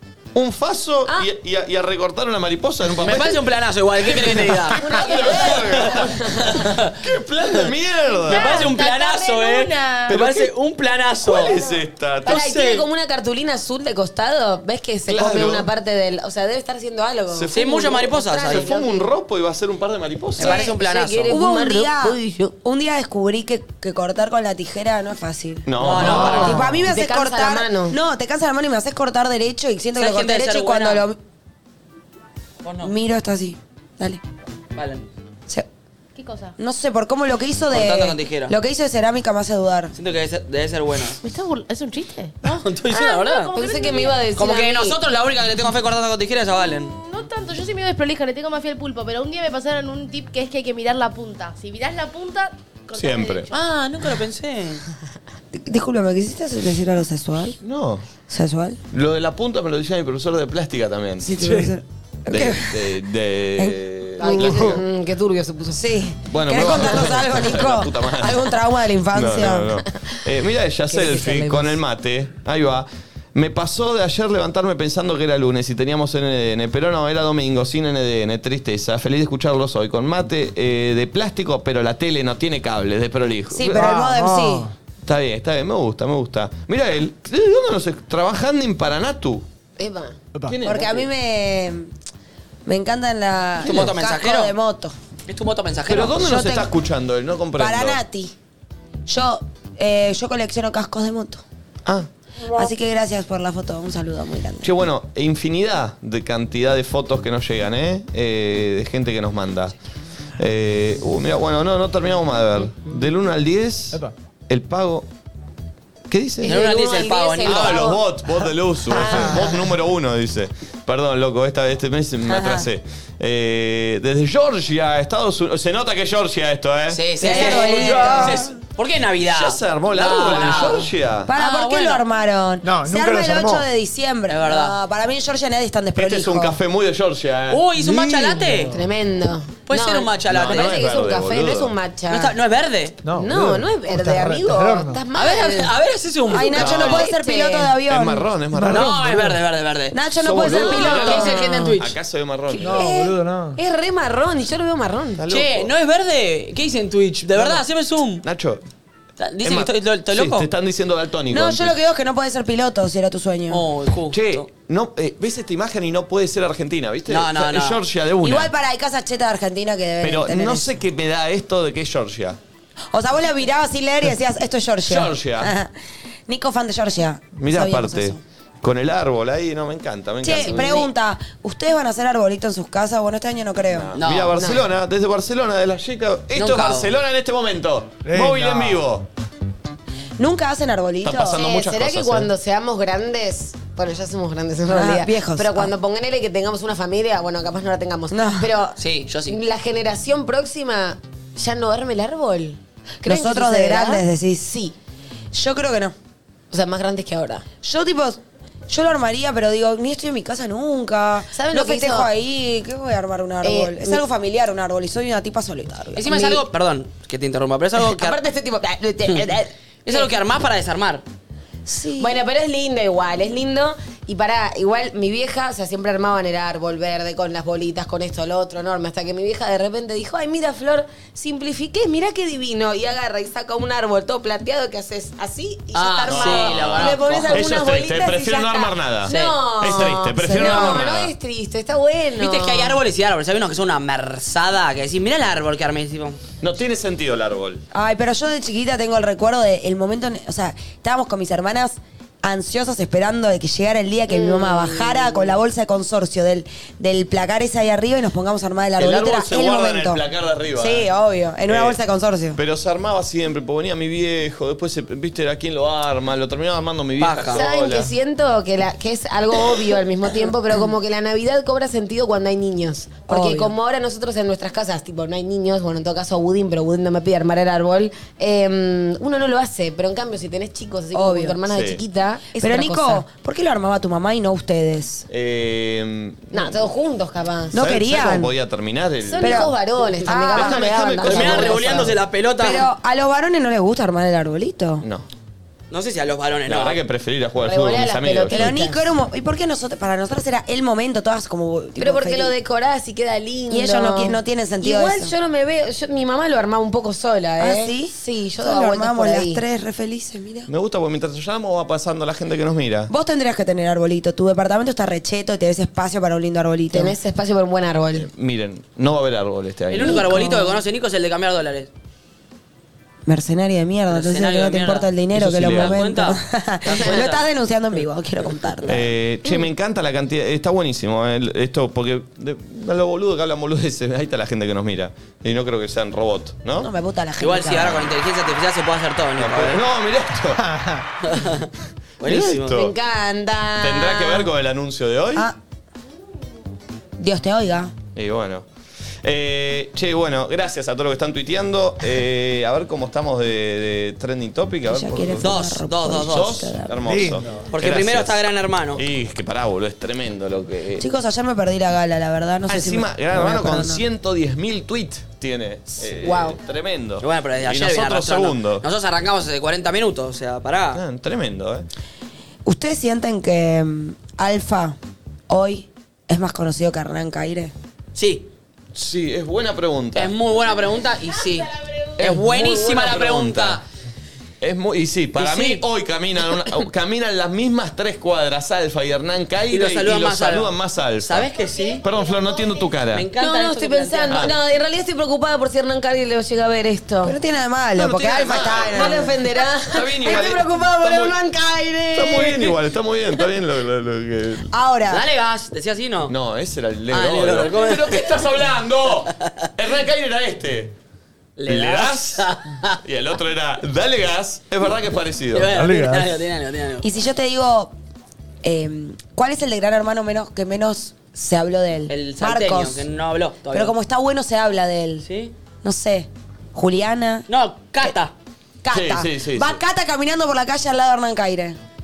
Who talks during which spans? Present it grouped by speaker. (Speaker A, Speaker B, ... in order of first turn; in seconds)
Speaker A: 0.3-3.4, 4.1-8.7, 10.1-10.5, 11.2-12.5, 15.1-15.7, 17.3-20.7, 25.7-26.8, 52.9-53.5, 57.6-58.0, 58.9-61.4, 62.3-64.8, 66.3-68.6, 69.1-83.9, 85.0-89.4, 90.5-91.1, 95.9-98.0, 104.6-109.8, 110.4-115.1, 116.1-116.6, 117.4-128.4, 129.3-131.3, 136.0-137.7, 140.3-141.7, 146.6-147.1, 147.9-149.0, 150.2-152.9, 155.2-155.7, 157.4-157.6, 158.2-158.6, 159.4-161.8, 164.1-168.5, 170.0-172.4, 174.8-175.5, 177.4-180.8, 183.7-189.1, 191.0-192.3, 236.1-241.1, 246.4-247.6, 258.8-260.9, 261.5-261.8, 262.4-267.9, 281.5-281.8, 285.1-286.7, 287.5-289.5, 290.3-291.9, 296.5-298.5, 310.5-312.9, 317.9-320.1, 325.1-325.8, 328.7-336.7, 339.2-340.5, 342.0-342.7, 343.6-345.3, 347.9-348.5, 349.0-355.3, 356.1-358.2, 358.8-360.9, 362.5-368.6, 370.7-371.7, 378.7-380.1, 382.0-383.6, 384.4-391.3, 391.8-393.1, 394.1-394.4, 397.8-399.1, 399.7-401.2, 401.9-404.5, 406.1-410.7, 411.5-412.3, 412.8-415.5, 428.7-429.6
Speaker B: 3.0-7.0, 8.3-11.6, 12.2-12.9, 17.5-18.7, 20.4-21.4, 25.8-26.6, 30.0-31.1, 32.6-32.9, 34.8-35.1, 37.7-38.5, 39.9-41.2, 42.4-43.5, 44.4-47.0, 53.5-54.8, 93.6-94.5, 95.3-96.2, 116.4-117.9, 126.9-132.0, 134.3-134.8, 137.5-138.8, 139.7-140.8, 142.1-142.9, 145.1-146.8, 148.7-150.0, 150.5-151.9, 155.3-158.2, 159.2-160.5, 163.5-164.5, 167.1-167.8, 184.0-184.4, 186.3-186.9, 198.8-199.4, 216.0-218.2, 219.8-221.0, 235.7-237.5, 239.1-239.4, 242.2-246.2, 267.0-267.4, 291.0-292.7, 295.7-296.8, 319.7-321.7, 323.9-327.2, 337.2-339.6, 341.0-341.5, 342.0-342.6, 355.2-356.4, 357.5-358.8, 367.0-370.8, 377.9-378.3, 379.9-383.6, 385.1-385.6, 389.5-391.8, 392.9-394.3, 404.9-406.1, 406.9-408.2, 411.4-412.8, 415.3-416.9, 421.9-423.8, 425.0-425.3, 427.3-428.1
Speaker C: 4.7-6.7, 12.2-19.1, 20.4-22.6, 26.8-28.0, 43.5-45.0, 64.2-65.9, 70.9-71.8, 89.8-90.2, 116.4-118.0, 138.7-142.3, 143.2-145.7, 146.3-147.8, 150.8-151.8, 152.6-155.2, 184.3-184.7, 191.3-204.7, 206.5-207.5, 211.3-212.1, 213.4-214.0, 216.1-216.4, 217.8-220.1, 222.0-242.8, 254.1-255.4, 267.3-283.0, 286.3-287.6, 289.0-291.9, 297.4-298.8, 301.8-309.4, 316.7-318.1, 326.7-327.0, 342.5-344.3, 366.0-366.4, 393.1-397.2, 398.7-402.6
Speaker D: 8.2-10.2, 36.2-36.5, 41.2-44.3, 47.0-53.6, 391.4-392.7
Speaker E: 21.3-31.2, 32.8-34.2, 36.6-39.9, 55.5-57.6, 58.3-58.8, 61.2-63.0, 63.6-64.8, 65.7-69.8, 83.5-84.7, 90.6-91.9, 92.7-94.9, 96.1-96.7, 97.6-98.3, 99.1-101.4, 102.5-104.8, 122.3-122.7, 127.2-128.4, 131.3-136.6, 146.3-148.3, 149.9-151.3, 161.3-163.6, 168.2-170.8, 172.9-175.7, 176.3-178.2, 180.2-183.9, 190.2-191.4, 194.7-195.7, 198.1-198.5, 203.0-204.6, 205.3-205.9, 207.6-216.3, 221.7-222.2, 240.2-240.9, 247.7-260.0, 260.5-262.4, 273.1-273.6, 280.9-281.4, 282.3-285.1, 287.5-288.3, 289.2-294.9, 298.3-302.4, 303.5-305.1, 307.4-310.5, 312.9-317.0, 319.8-320.6, 323.1-328.9, 336.6-338.0, 347.0-347.7, 354.6-356.8, 360.8-363.8, 372.4-374.8, 375.3-377.5, 397.0-399.1, 404.5-405.0, 416.8-417.7, 418.4-422.9, 423.5-425.1, 425.6-427.3, 428.6-431.6
Speaker F: 61.4-61.7, 83.7-84.7, 119.0-119.6, 127.8-128.5, 132.6-133.7, 137.8-138.8, 143.0-145.0, 148.5-149.4, 152.8-153.6, 188.1-188.8, 340.5-340.8, 356.8-357.4, 415.5-416.2